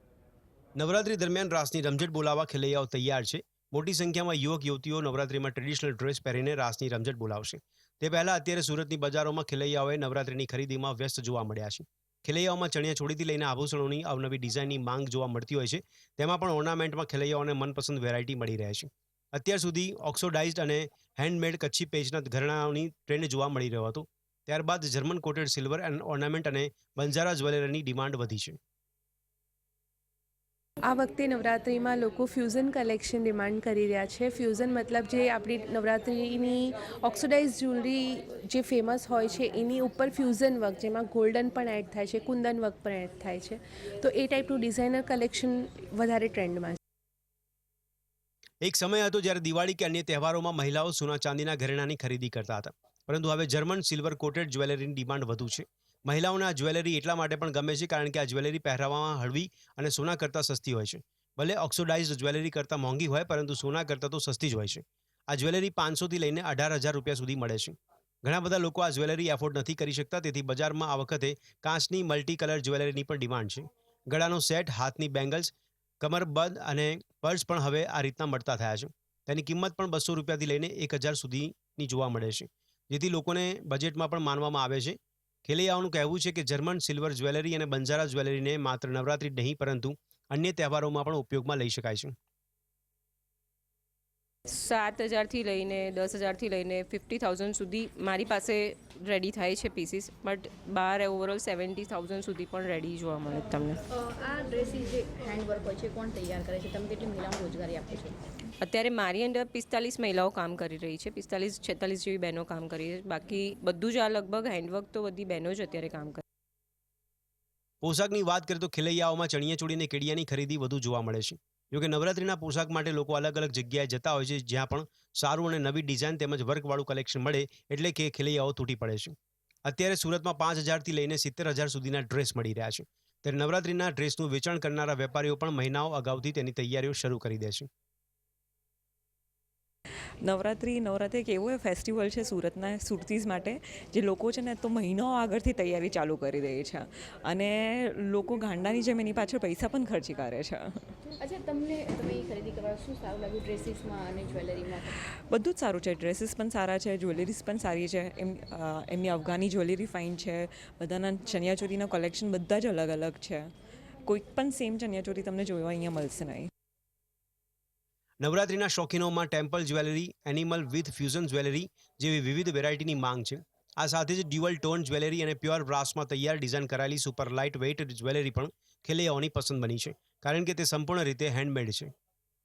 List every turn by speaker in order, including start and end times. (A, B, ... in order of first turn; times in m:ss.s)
0:00.8-0:28.6 A
0:30.8-0:46.8 B
0:48.6-1:32.1 A
1:34.5-1:43.8 C
1:44.0-1:48.2 D
1:48.6-1:56.2 C
1:57.8-2:09.1 A
2:09.7-2:17.7 A
2:20.2-2:30.9 E
2:31.2-2:35.0 D
2:35.2-2:43.5 E
2:44.0-2:46.5 E
2:48.2-3:01.9 A